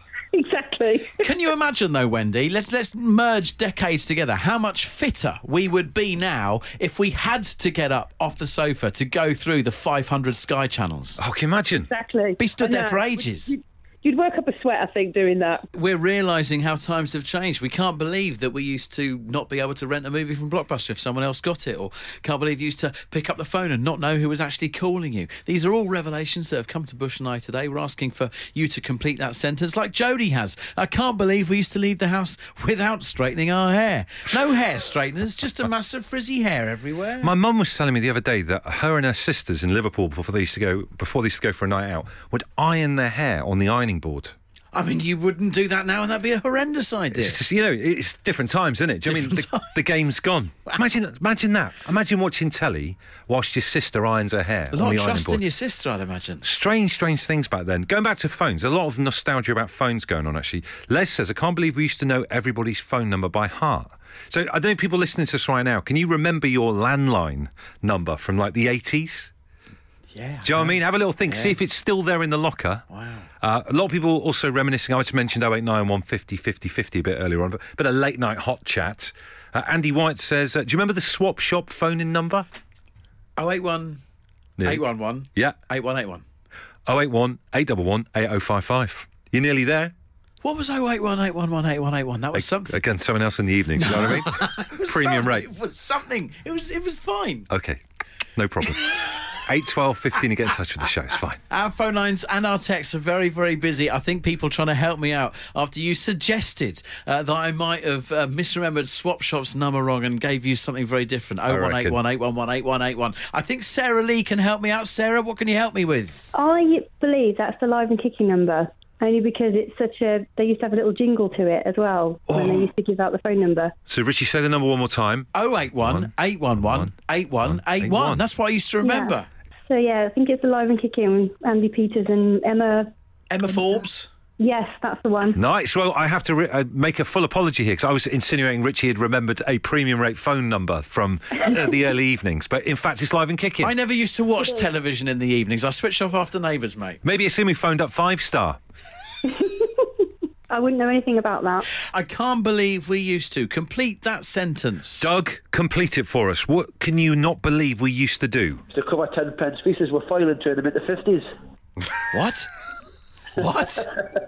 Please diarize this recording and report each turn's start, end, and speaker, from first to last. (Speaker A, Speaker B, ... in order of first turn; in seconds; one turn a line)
Speaker A: 0.3-1.3
Speaker B: 1.2-11.2
Speaker C: 11.2-11.9
Speaker A: 11.9-15.7
Speaker B: 12.4-13.5
Speaker B: 15.7-37.3
Speaker C: 37.2-44.4
Speaker B: 44.7-47.4
Speaker C: 47.1-55.4
Speaker B: 49.0-49.8
Speaker B: 54.7-56.4
Speaker C: 56.4-69.3
Speaker B: 70.1-71.6
Speaker C: 70.4-72.8
Speaker B: 72.9-73.3
Speaker C: 73.4-82.5
Speaker B: 83.4-84.0
Speaker C: 84.6-85.5
Speaker B: 84.6-86.2
Speaker C: 86.9-89.9
Speaker B: 90.4-92.8
Speaker C: 92.3-95.5
Speaker B: 93.8-97.5
Speaker C: 97.5-97.8
Speaker C: 98.4-101.4
Speaker B: 101.5-116.3
Speaker C: 111.5-112.0
Speaker D: 116.3-123.7
Speaker C: 122.3-122.7
Speaker C: 123.9-126.9
Speaker B: 125.3-129.3
Speaker C: 127.4-128.2
Speaker D: 128.8-129.2
Speaker D: 129.7-132.9
Speaker B: 133.3-134.1
Speaker D: 134.4-135.4
Speaker C: 135.3-143.7
Speaker B: 143.6-147.0
Speaker C: 147.0-148.6
Speaker D: 149.3-149.9
Speaker D: 150.5-151.7
Speaker B: 151.8-155.1
Speaker C: 155.0-158.6
Speaker E: 158.7-161.2
Speaker B: 162.1-162.5
Speaker B: 163.4-163.9